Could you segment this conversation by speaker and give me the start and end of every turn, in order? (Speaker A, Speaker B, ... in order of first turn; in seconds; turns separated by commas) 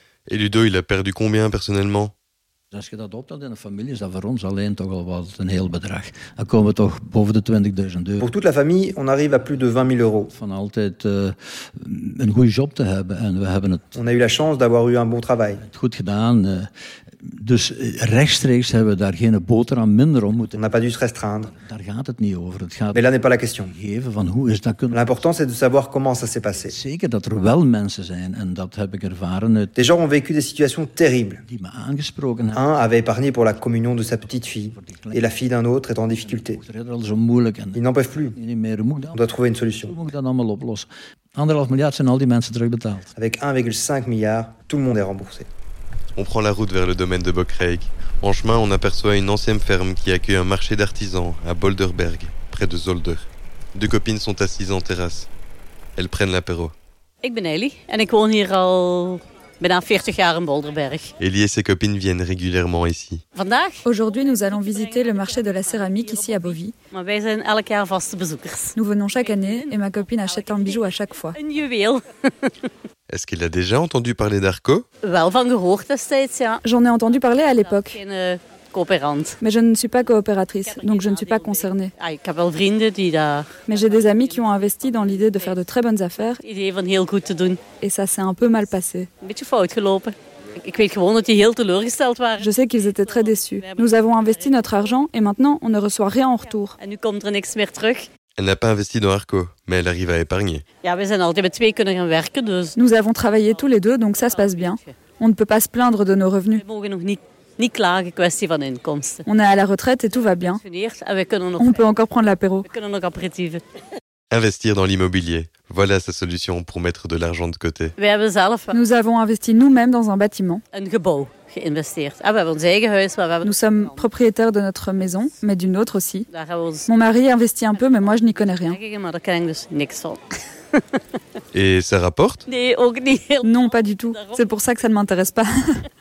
Speaker A: 0.3-2.1, Speaker B: 2.7-8.3, Speaker C: 8.2-10.3, Speaker B: 10.3-14.0, Speaker C: 13.9-15.6, Speaker B: 15.6-16.7, Speaker B: 17.2-20.6, Speaker C: 20.6-21.5, Speaker B: 21.4-23.1, Speaker C: 22.9-23.7, Speaker B: 23.7-25.2, Speaker C: 24.9-26.8, Speaker B: 26.7-29.7, Speaker C: 29.8-31.4, Speaker B: 31.4-32.6, Speaker C: 32.5-36.6, Speaker B: 34.2-35.3, Speaker B: 36.2-39.3, Speaker C: 37.8-38.4, Speaker C: 39.1-40.0, Speaker B: 39.8-43.1, Speaker C: 43.2-45.5, Speaker A: 46.2-55.3, Speaker A: 56.0-56.7, Speaker D: 57.2-61.1, Speaker A: 61.2-63.2, Speaker D: 63.3-72.5, Speaker E: 63.9-66.7, Speaker E: 68.8-71.4, Speaker A: 73.1-74.9, Speaker D: 75.0-79.4, Speaker E: 76.6-78.0, Speaker E: 79.4-81.9, Speaker D: 80.6-85.7, Speaker E: 83.7-86.4, Speaker D: 86.2-87.6, Speaker E: 87.8-89.1, Speaker D: 89.2-94.9, Speaker E: 92.4-96.8, Speaker D: 96.4-98.1, Speaker A: 98.4-100.7, Speaker D: 100.8-102.8, Speaker E: 102.8-106.6, Speaker D: 103.5-105.0, Speaker D: 106.5-109.3, Speaker E: 109.3-110.6, Speaker D: 110.1-112.0, Speaker E: 111.6-112.7, Speaker D: 112.6-113.6, Speaker A: 114.3-118.0, Speaker D: 118.0-118.8, Speaker E: 118.7-120.6, Speaker D: 120.7-124.1, Speaker E: 123.4-126.3, Speaker D: 126.3-126.9, Speaker E: 126.9-128.8, Speaker D: 127.7-130.2, Speaker A: 131.5-132.4, Speaker D: 132.5-134.5, Speaker E: 133.4-135.7